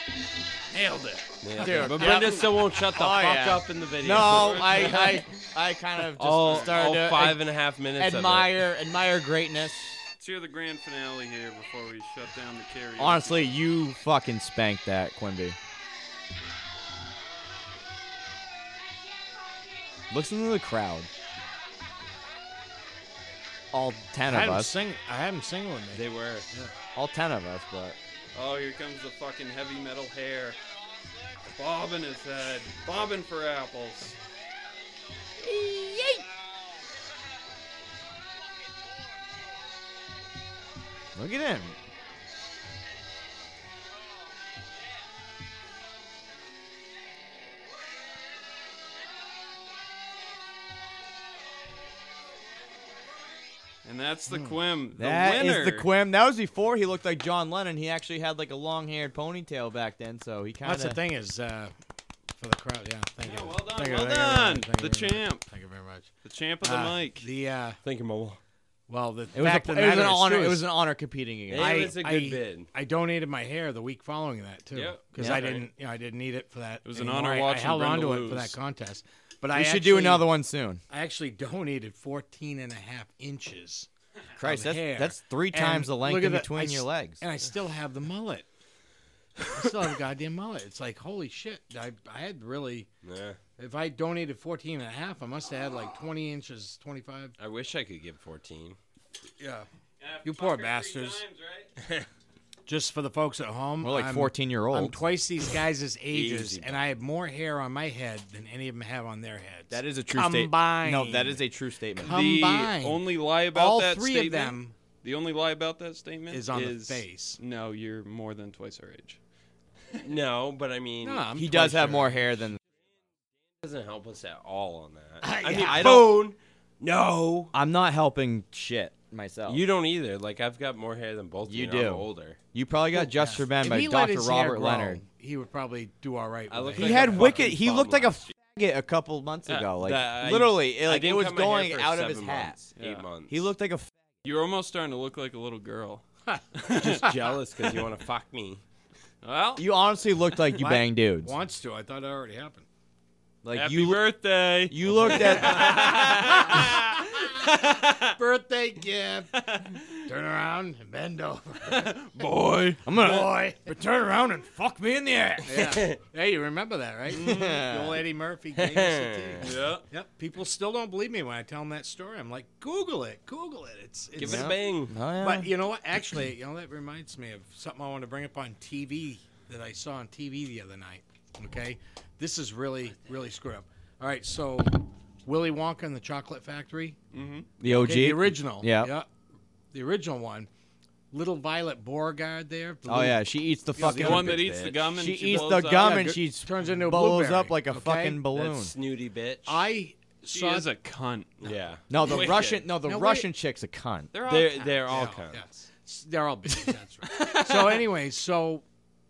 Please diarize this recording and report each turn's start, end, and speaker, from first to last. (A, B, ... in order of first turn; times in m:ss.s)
0:00.6-0:02.1 A
0:01.4-0:05.2 B
0:01.6-0:07.4 C
0:04.1-0:05.2 D
0:06.1-0:08.6 B
0:06.4-0:07.0 D
0:08.0-0:10.0 C
0:10.2-0:13.6 D
0:13.0-0:15.6 C
0:20.1-0:21.1 C
0:23.7-0:24.8 C
0:24.3-0:26.7 A
0:25.9-0:26.5 B
0:26.9-0:28.0 C
0:28.3-0:30.6 D
0:31.4-0:34.2 D
0:35.4-0:36.2 C
0:41.2-0:41.8 C
0:53.8-0:55.9 D
0:54.3-0:54.6 A
0:55.0-1:01.0 C
1:00.6-1:01.7 A
1:02.4-1:06.1 A
1:03.2-1:05.5 D
1:06.2-1:07.3 D
1:06.6-1:07.8 A
1:07.8-1:08.4 B
1:08.9-1:10.7 A
1:09.3-1:11.9 C
1:11.5-1:12.7 B
1:11.6-1:20.3 A
1:14.7-1:15.7 D
1:16.8-1:18.6 D
1:19.5-1:20.8 C
1:20.9-1:23.9 A
1:24.4-1:27.2 C
1:24.4-1:28.5 A
1:29.4-1:32.9 A
1:33.0-1:33.4 B
1:33.6-1:37.4 A
1:37.4-1:38.8 B
1:39.4-1:39.7 A
1:40.0-1:41.7 D
1:40.2-1:41.2 A
1:42.6-1:51.4 A
1:43.8-1:45.0 C
1:46.1-1:46.8 B
1:49.7-1:52.2 C
1:52.0-1:54.8 A
1:52.0-1:59.2 D
1:56.3-1:57.4 A
2:00.0-2:01.3 B
2:01.0-2:02.5 A
2:01.4-2:02.6 C
2:03.6-2:07.5 B
2:05.2-2:06.1 A
2:05.5-2:06.2 C
2:07.5-2:09.6 C
2:09.5-2:12.4 B
2:11.5-2:15.0 C
2:12.9-2:17.5 A
2:16.5-2:18.2 B
2:16.8-2:22.6 C
2:19.5-2:23.5 B
2:22.8-2:23.0 D
2:23.3-2:23.9 C
2:24.2-2:26.0 D
2:26.6-2:27.1 D
2:26.8-2:28.6 B
2:29.2-2:29.6 D
2:29.6-2:31.3 C
2:30.6-2:32.6 A
2:33.4-2:34.0 C
2:33.5-2:38.1 D
2:34.7-2:36.4 C
2:35.6-2:36.6 A
2:38.2-2:39.3 A
2:39.4-2:40.0 D
2:40.0-2:41.9 A
2:41.6-2:43.1 D
2:42.8-2:45.7 C
2:43.0-2:43.8 A
2:45.4-2:54.6 A
2:47.1-2:47.4 D
2:47.1-2:48.0 C
2:48.5-2:49.6 B
2:49.4-2:49.9 D
2:54.2-2:55.0 B
2:54.2-2:55.6 C
2:55.2-3:07.0 A
3:07.1-3:07.5 D
3:07.6-3:09.0 C
3:07.6-3:09.1 A
3:09.7-3:10.5 A
3:11.1-3:14.5 A
3:12.9-3:18.7 C
3:13.9-3:16.2 D
3:14.2-3:14.9 B
3:15.3-3:18.2 A
3:18.3-3:19.6 B
3:19.4-3:20.7 A
3:20.3-3:22.7 D
3:21.4-3:21.8 B
3:21.9-3:24.1 C
3:22.8-3:23.3 A
3:24.1-3:25.0 D
3:24.2-3:25.5 B
3:24.9-3:28.6 A